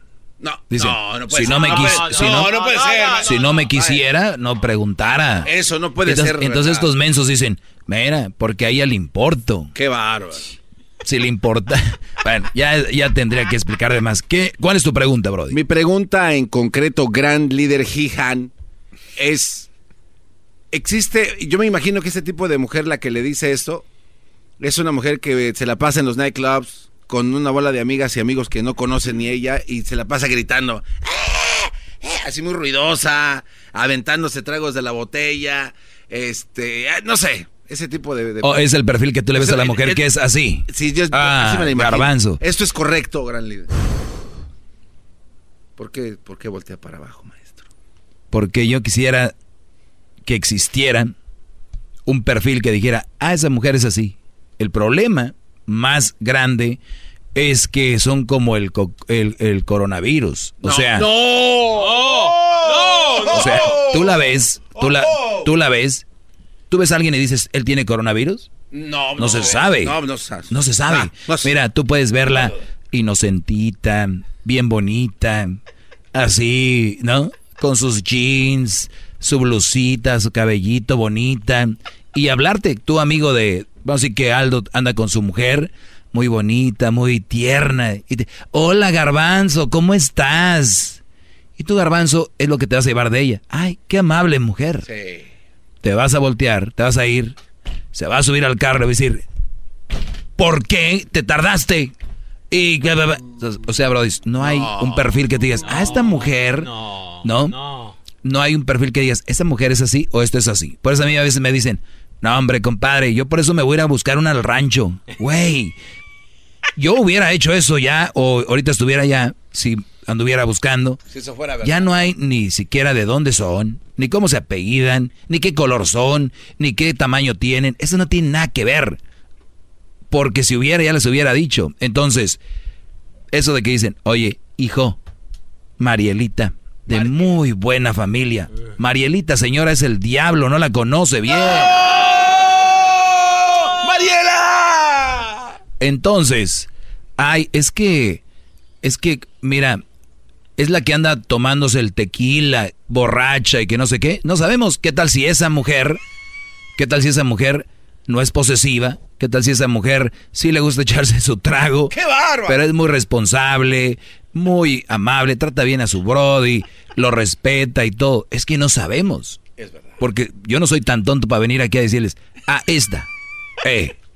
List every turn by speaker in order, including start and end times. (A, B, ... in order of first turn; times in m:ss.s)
0:00.4-0:04.1 A
0:00.7-0:02.6 B
0:03.1-0:05.5 B
0:05.4-0:06.9 A
0:06.0-0:09.7 B
0:09.7-0:10.5 A
0:11.0-0:15.6 B
0:15.5-0:18.5 A
0:19.2-0:19.7 A
0:20.7-0:23.8 A
0:24.6-0:38.7 A
0:38.4-0:42.4 B
0:39.4-0:40.1 A
0:40.7-0:43.7 A
0:45.8-0:47.6 A
0:48.3-0:49.3 B
0:50.2-0:51.1 B
0:52.1-0:56.8 B
0:57.4-1:01.1 B
1:00.6-1:05.5 A
1:03.2-1:06.0 B
1:06.7-1:08.5 B
1:08.7-1:11.5 A
1:09.2-1:10.0 B
1:10.5-1:15.6 B
1:16.1-1:31.0 B
1:31.6-1:34.9 B
1:34.8-1:35.3 A
1:35.8-1:37.4 B
1:37.9-1:39.2 B
1:40.4-1:41.9 B
1:42.5-1:46.7 B
1:44.4-1:45.2 A
1:47.2-1:47.6 B
1:48.2-1:55.7 B
1:56.8-2:01.0 B
2:01.1-2:02.0 A
2:01.6-2:09.0 B
2:10.1-2:12.4 B
2:13.3-2:15.0 B
2:15.8-2:21.8 B
2:16.9-2:17.3 A
2:21.9-2:22.9 A
2:23.5-2:25.5 A
2:25.8-2:28.2 B
2:28.8-2:29.8 B
2:30.6-2:36.0 B
2:36.8-2:49.4 B
2:41.9-2:42.6 A
2:49.6-2:50.0 A
2:50.0-2:53.1 B
2:53.6-2:53.9 B